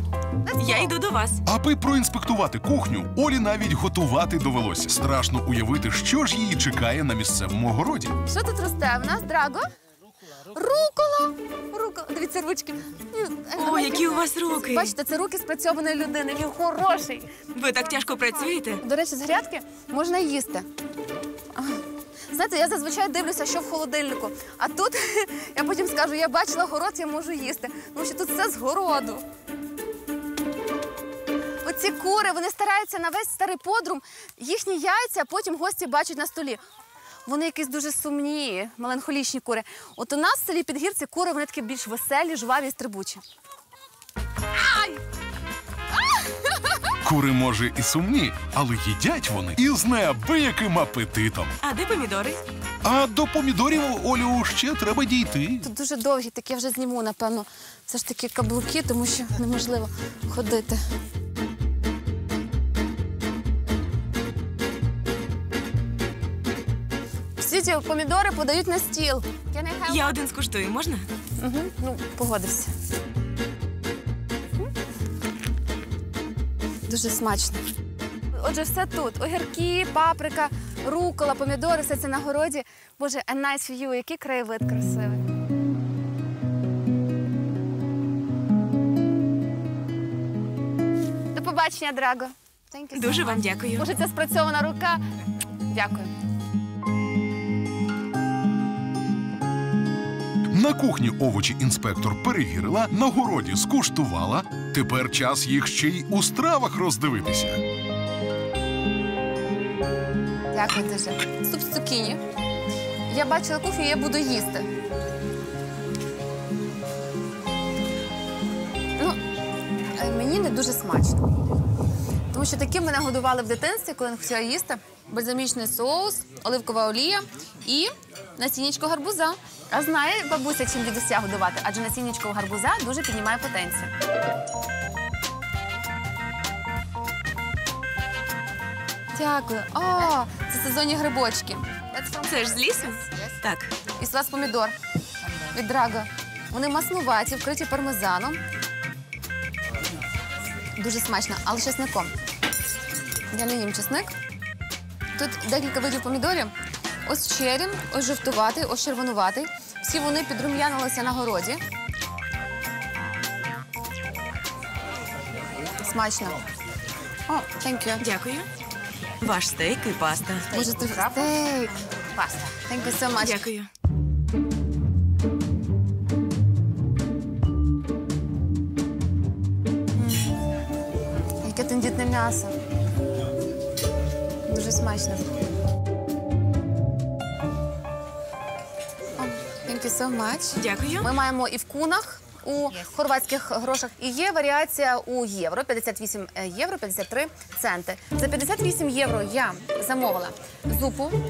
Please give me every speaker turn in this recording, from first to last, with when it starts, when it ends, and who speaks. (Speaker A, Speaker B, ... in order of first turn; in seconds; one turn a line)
Speaker A: 0.4-0.9
Speaker B: 0.6-1.4
Speaker C: 1.4-8.1
Speaker A: 8.2-9.6
Speaker A: 10.5-17.3
Speaker B: 13.6-14.9
Speaker B: 17.5-18.8
Speaker A: 18.8-20.7
Speaker A: 21.5-21.8
Speaker A: 22.3-29.2
Speaker A: 31.6-36.6
Speaker A: 37.2-43.2
Speaker A: 44.5-45.0
Speaker A: 46.0-46.9
Speaker C: 47.0-51.6
Speaker B: 51.6-52.4
Speaker C: 52.8-55.7
Speaker A: 55.6-60.8
Speaker A: 67.4-70.2
Speaker B: 69.9-71.1
Speaker A: 71.4-72.7
Speaker A: 76.9-77.6
Speaker A: 78.3-85.2
Speaker A: 91.3-95.0
Speaker B: 92.9-93.9
Speaker A: 95.7-96.1
Speaker C: 100.5-107.6
Speaker A: 110.5-112.2
Speaker A: 113.1-114.7
Speaker A: 120.0-121.2
Speaker A: 122.3-133.9
Speaker A: 139.1-143.3
Speaker B: 142.2-143.7
Speaker A: 143.9-144.7
Speaker A: 145.5-148.4
Speaker A: 150.8-152.1
Speaker A: 153.3-154.1
Speaker A: 155.1-156.5
Speaker A: 157.1-161.6
Speaker A: 165.8-166.4
Speaker A: 167.3-168.1
Speaker B: 168.0-168.5
Speaker B: 169.2-170.5
Speaker A: 170.5-173.4
Speaker B: 173.2-173.7
Speaker A: 180.0-180.3
Speaker A: 181.4-182.5
Speaker A: 184.4-185.3
Speaker A: 189.2-201.1
Speaker B: 190.6-191.1